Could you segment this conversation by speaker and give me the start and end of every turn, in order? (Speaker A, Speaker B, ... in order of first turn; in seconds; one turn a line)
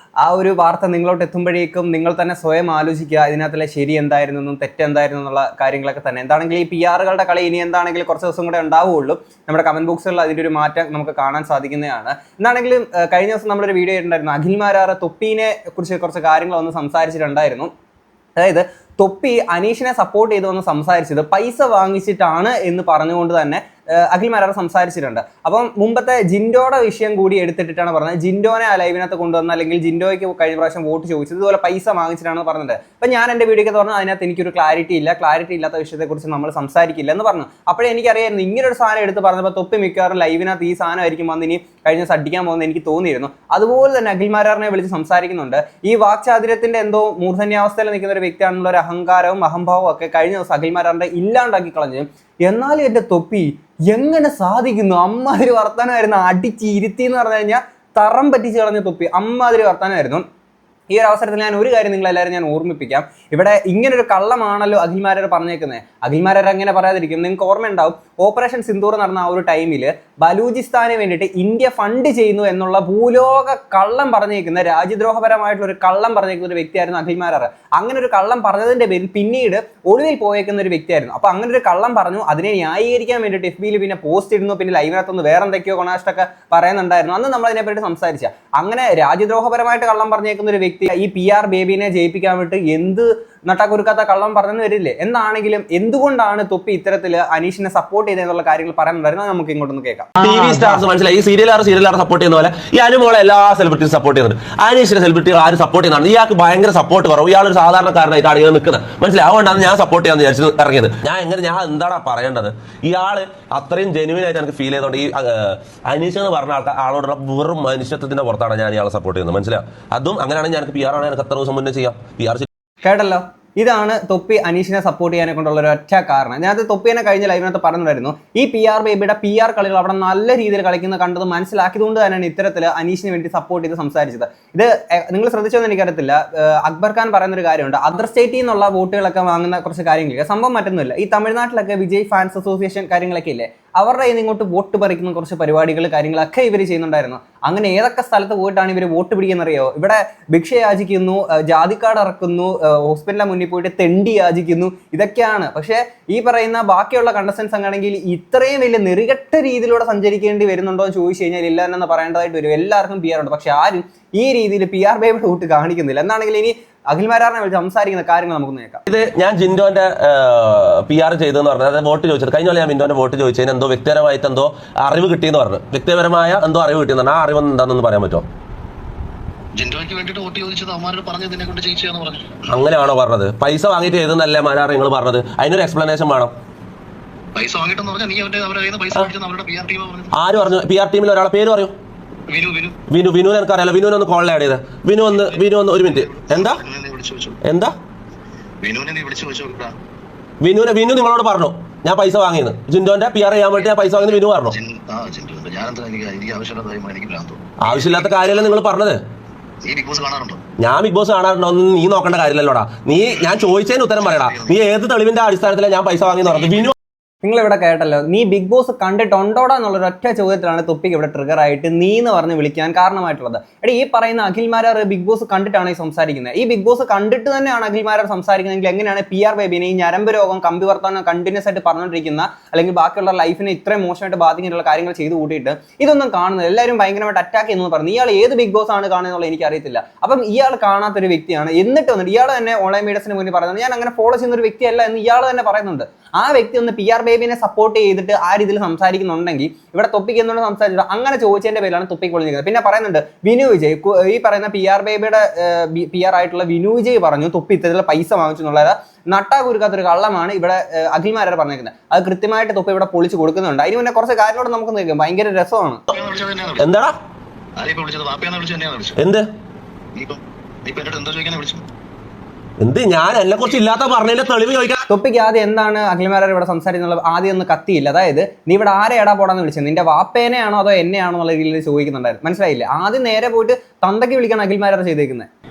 Speaker A: 0.2-17.7
Speaker A: 18.4-60.2
Speaker A: 60.9-100.1
Speaker B: 100.2-122.5
Speaker A: 122.8-168.8
Speaker B: 168.9-178.2
Speaker C: 179.5-182.5
Speaker B: 182.5-186.3
Speaker C: 187.3-190.1
Speaker B: 190.1-191.7
Speaker C: 192.3-192.8
Speaker B: 192.9-196.6
Speaker C: 196.0-197.4
Speaker B: 197.4-197.7
Speaker C: 198.6-199.7
Speaker B: 200.4-204.6
Speaker C: 204.5-207.9
Speaker B: 207.6-209.0
Speaker C: 209.6-210.4
Speaker B: 210.6-216.7
Speaker C: 214.0-214.6
Speaker A: 217.2-265.8
Speaker C: 265.9-266.6
Speaker B: 266.6-266.9
Speaker C: 267.6-269.0
Speaker B: 269.0-269.3
Speaker C: 269.9-271.6
Speaker B: 272.6-274.8
Speaker A: 274.9-285.3